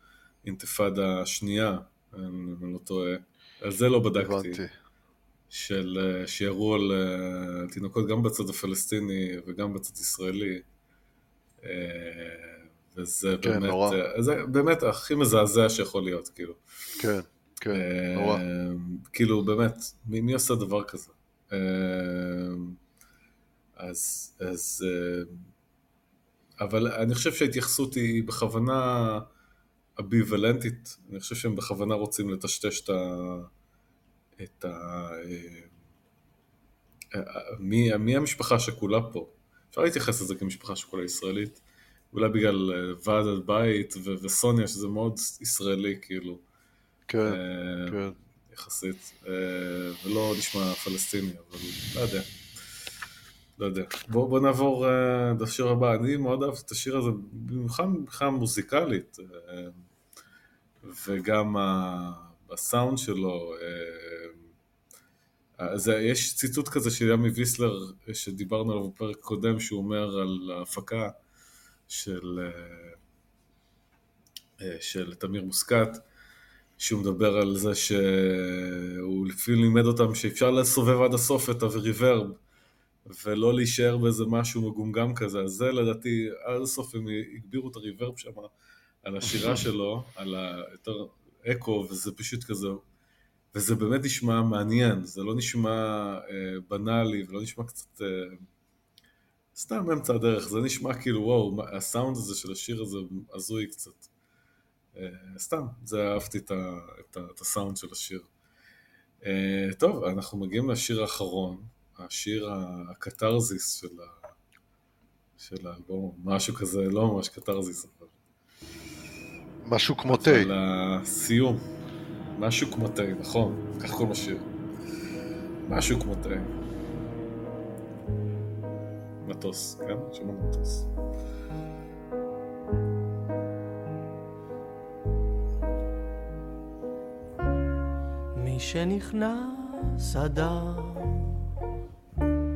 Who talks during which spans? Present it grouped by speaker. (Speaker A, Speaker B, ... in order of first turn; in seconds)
Speaker A: 0.4-4.6, 5.5-10.6, 11.6-16.6, 17.7-22.8, 23.8-25.4, 26.6-29.3, 30.0-33.5, 34.4-35.7, 37.1-46.4, 47.2-52.3, 53.6-59.8, 60.8-64.4, 65.6-71.1, 71.9-73.0, 74.6-76.0, 76.8-82.4, 83.0-88.5, 89.0-92.8, 93.5-98.4, 99.5-104.1, 104.9-108.3, 109.2-114.3, 115.4-118.1, 120.1-121.7, 122.3-124.5, 125.7-126.5, 129.2-130.9
Speaker B: 4.2-4.7, 13.4-14.0, 17.0-18.4, 47.1-48.1, 119.6-120.5
Speaker C: 138.3-141.4